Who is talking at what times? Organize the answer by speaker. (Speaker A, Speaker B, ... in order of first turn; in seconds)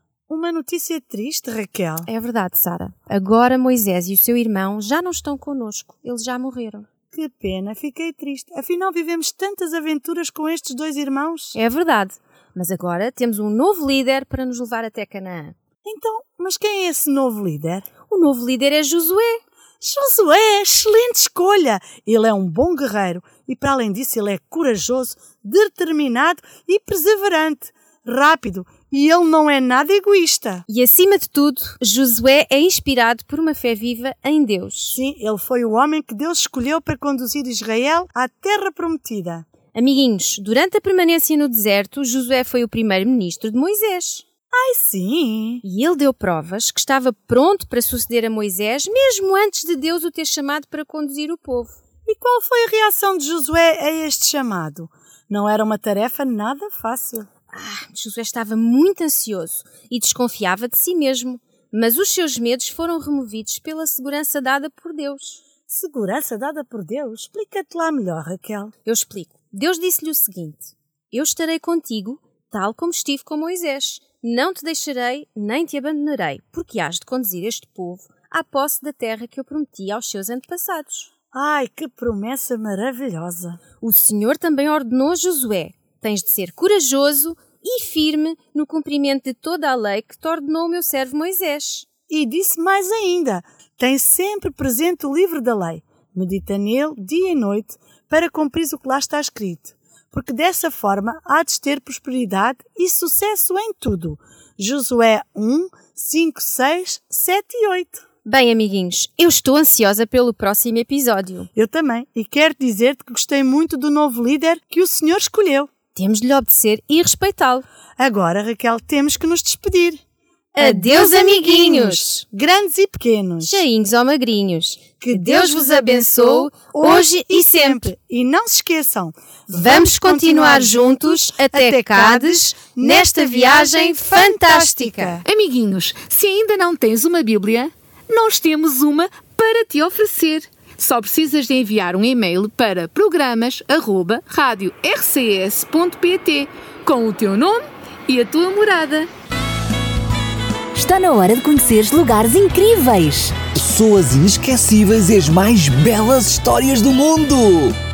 Speaker A: 0.3-2.1, 7.1-11.6, 15.8-17.9, 19.8-30.6, 34.9-39.5, 44.5-45.6, 52.1-57.3, 65.7-68.7, 81.3-83.6, 92.1-108.0, 111.5-115.7, 118.0-120.0, 120.6-123.6, 125.0-135.2
Speaker B: 2.1-6.9, 11.6-15.6, 18.1-19.4, 30.7-35.0, 39.7-44.2, 45.6-51.7, 57.5-65.4, 68.8-81.1, 83.8-91.9, 108.2-111.5, 116.0-117.7, 120.5-122.2, 123.4-127.9, 129.5-135.2
Speaker C: 135.2-149.1
Speaker D: 150.7-153.4
Speaker E: 153.5-157.8